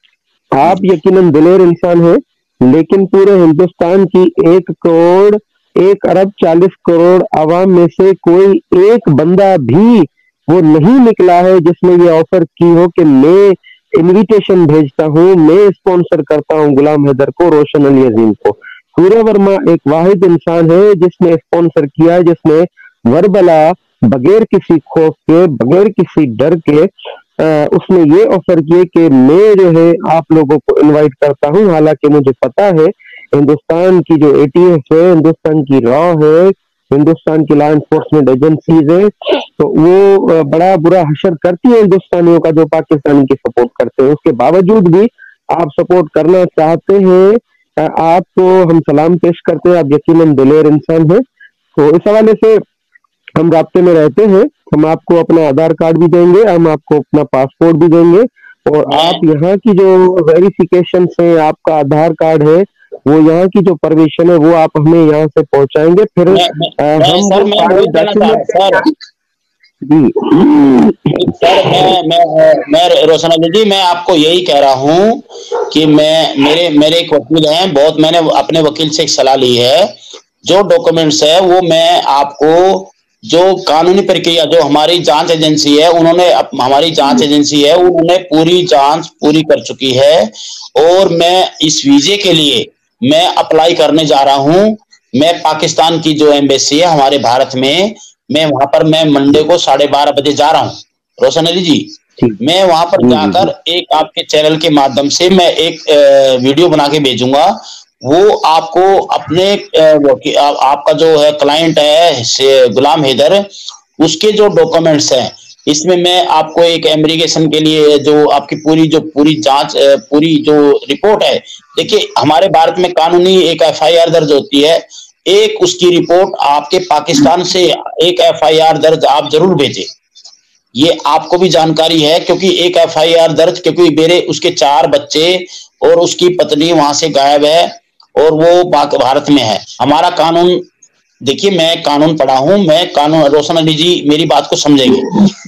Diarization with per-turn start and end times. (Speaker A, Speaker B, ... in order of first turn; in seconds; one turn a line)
Speaker A: 0.5-26.9
Speaker A: 27.4-51.2
Speaker A: 51.8-52.6
Speaker A: 53.4-68.9
Speaker B: 58.9-59.2
Speaker B: 66.3-68.8
Speaker A: 69.8-71.1
Speaker B: 71.2-79.9
Speaker B: 80.4-101.9
Speaker B: 102.4-113.5
Speaker A: 103.0-103.5
Speaker B: 114.0-129.9
Speaker B: 130.8-140.6
Speaker B: 141.2-145.1